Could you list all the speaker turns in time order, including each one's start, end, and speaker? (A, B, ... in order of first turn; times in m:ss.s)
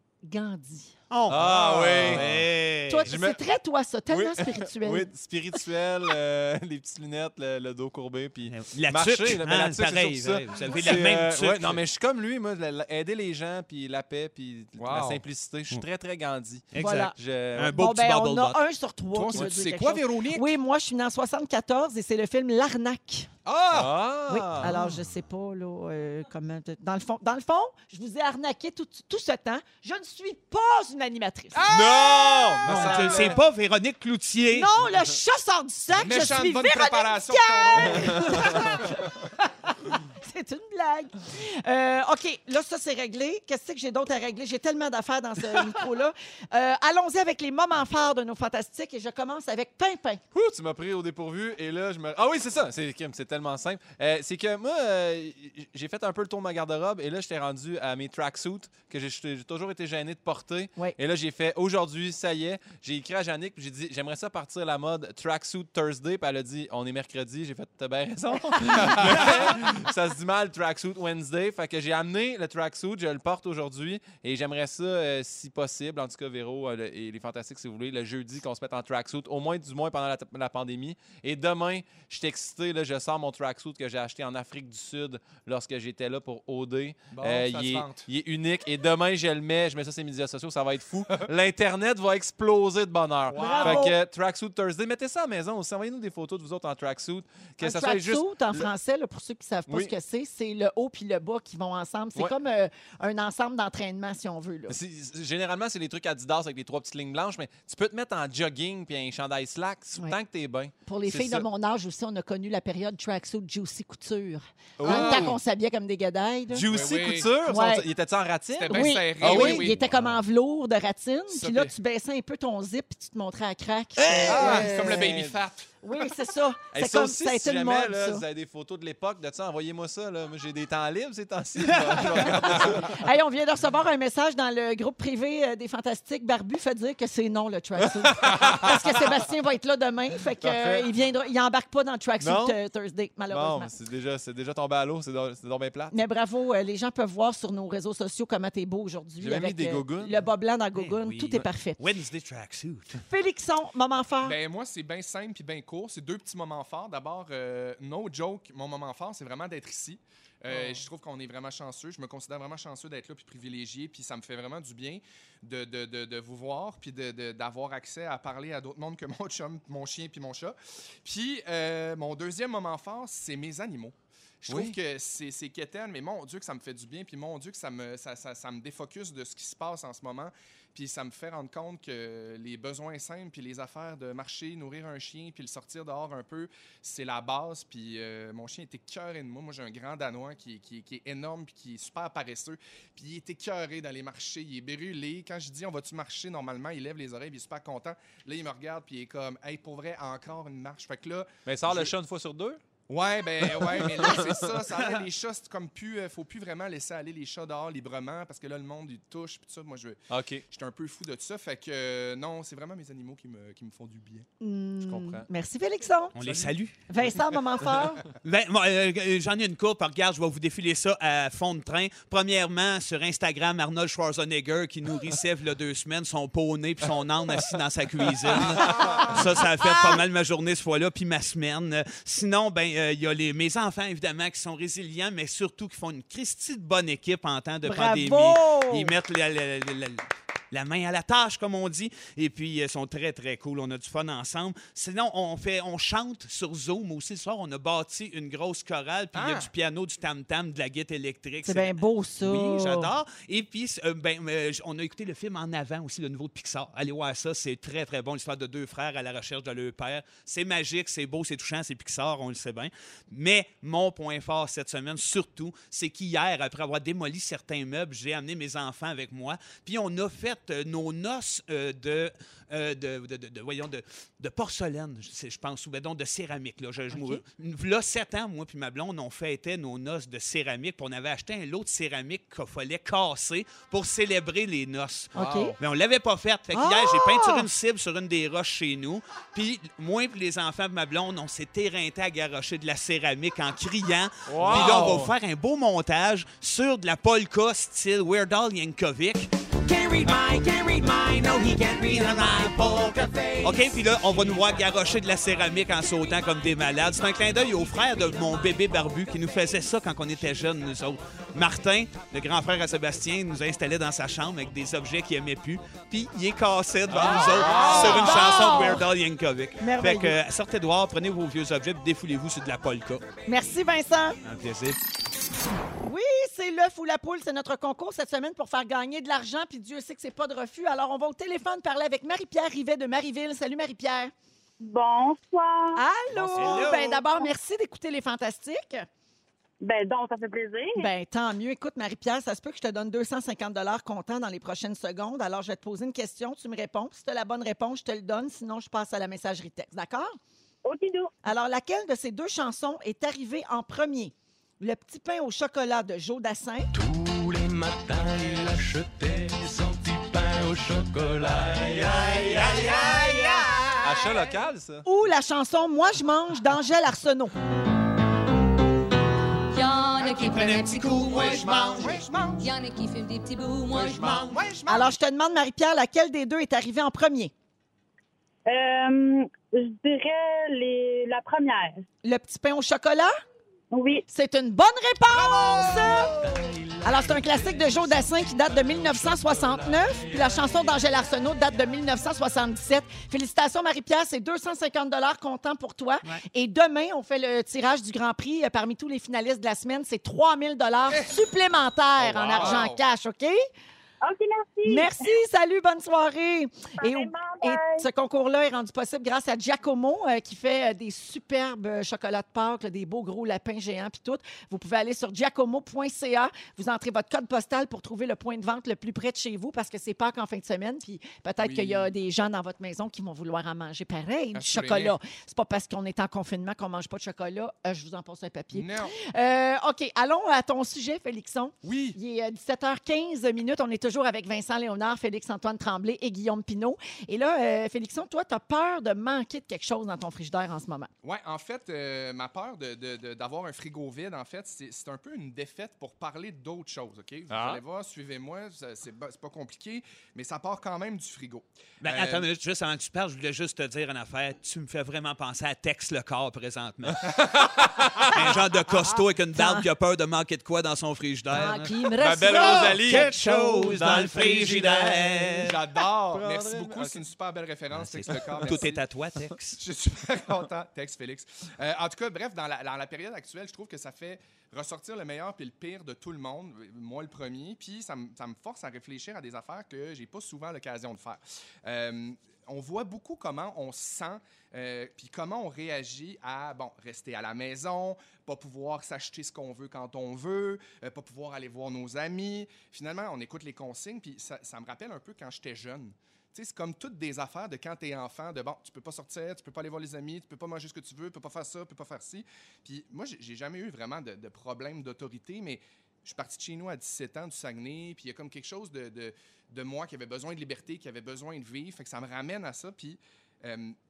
0:00.2-0:00.9 A
0:01.1-0:01.4 B
0:01.3-0:02.4 C
0:01.3-0:02.4 D
0:02.0-0:03.1 B
0:02.9-0:05.1 A
0:03.1-0:03.4 C
0:04.1-0:17.8 C
0:08.5-0:11.8 B
0:14.8-0:15.2 D
0:16.7-0:18.6 B
0:16.8-0:17.2 A
0:17.7-0:23.3 A
0:19.1-0:20.5 D
0:23.5-0:24.0 D
0:23.7-0:24.8 C
0:24.3-0:31.6 A
0:24.6-0:25.0 D
0:31.6-0:33.4 D
0:31.7-0:33.4 C
0:32.6-0:34.7 B
0:34.5-0:50.2 A
0:36.0-0:38.9 D
0:50.3-1:38.7 C
1:08.8-1:09.5 D
1:27.1-1:28.1 D
1:33.3-1:33.8 B
1:33.4-1:34.0 A
1:37.6-1:44.8 A
1:39.7-1:39.9 C
1:44.7-1:51.5 C
1:50.8-1:56.7 A
1:54.8-1:55.4 C
1:54.8-1:55.4 D
1:56.5-2:00.2 C
1:56.7-1:57.3 D
1:57.5-1:57.9 A
1:58.6-1:59.8 D
1:58.7-2:05.1 A
2:01.3-2:01.7 D
2:04.0-2:05.4 C
2:04.3-2:05.7 D
2:05.8-2:08.2 A
2:06.7-2:13.1 C
2:12.0-2:23.8 A
2:20.4-2:20.9 C
2:22.2-2:22.6 C
2:23.3-2:26.0 C
2:25.9-2:31.8 A
2:29.2-2:30.2 C
2:30.8-2:33.0 B
2:33.0-2:34.4 A
2:34.2-3:21.9 D
2:40.5-2:40.8 A
2:54.5-2:54.8 C
3:21.5-3:22.6 C
3:22.9-3:34.3 D
3:23.4-3:24.4 C
3:30.1-3:30.4 C
3:34.4-3:36.1 A
3:34.8-3:35.3 C
3:36.2-3:36.8 B
3:36.2-3:36.5 D
3:36.9-3:38.0 A
3:38.2-4:59.3 B
3:48.5-3:49.2 D
3:57.7-3:58.9 A
4:09.2-4:09.5 D
4:11.4-4:12.9 A
4:36.9-4:37.2 A
4:45.1-4:45.6 A
4:45.2-4:45.5 D
4:46.5-4:47.5 A
4:54.3-4:55.1 C
4:54.5-4:55.1 D
4:59.6-5:04.2 A
5:01.9-5:23.0 B
5:16.9-5:18.2 C
5:17.0-5:18.5 D
5:17.6-5:18.8 A
5:19.6-5:20.2 A
5:23.3-5:24.2 A
5:24.2-5:24.8 B
5:25.8-5:34.1 A
5:34.6-5:35.8 E
5:35.8-5:38.9 A
5:36.2-5:37.0 B
5:39.6-5:40.9 E
5:40.8-5:50.1 A
5:50.6-5:51.1 E
5:51.2-5:56.7 A
5:56.7-6:02.9 F
6:02.5-6:03.5 A
6:03.8-6:04.9 C
6:04.9-6:07.3 A
6:09.5-6:14.4 G
6:10.0-6:12.5 D
6:11.0-6:11.5 F
6:13.7-6:14.9 D
6:14.7-6:17.3 A
6:18.5-6:21.8 E
6:22.0-6:23.1 A
6:23.7-6:24.0 E
6:24.1-6:26.2 A
6:25.1-6:26.2 D
6:26.0-6:30.8 F
6:26.8-6:43.4 A
6:42.0-6:42.7 C
6:42.3-6:42.8 D
6:44.0-6:44.9 E
6:44.6-7:20.9 A
6:46.8-6:47.9 E
7:01.4-7:01.9 D
7:04.4-7:05.0 D
7:08.5-7:09.0 D
7:11.6-7:12.0 D
7:21.0-7:32.3 D
7:27.3-7:27.6 C
7:31.8-7:37.3 B
7:37.1-7:38.2 C
7:38.0-7:45.6 B
7:39.4-7:39.7 A
7:41.3-7:45.5 A
7:42.0-7:44.7 C
7:45.4-7:48.8 D
7:46.1-7:47.0 C
7:47.7-7:49.6 B
7:49.6-8:33.8 D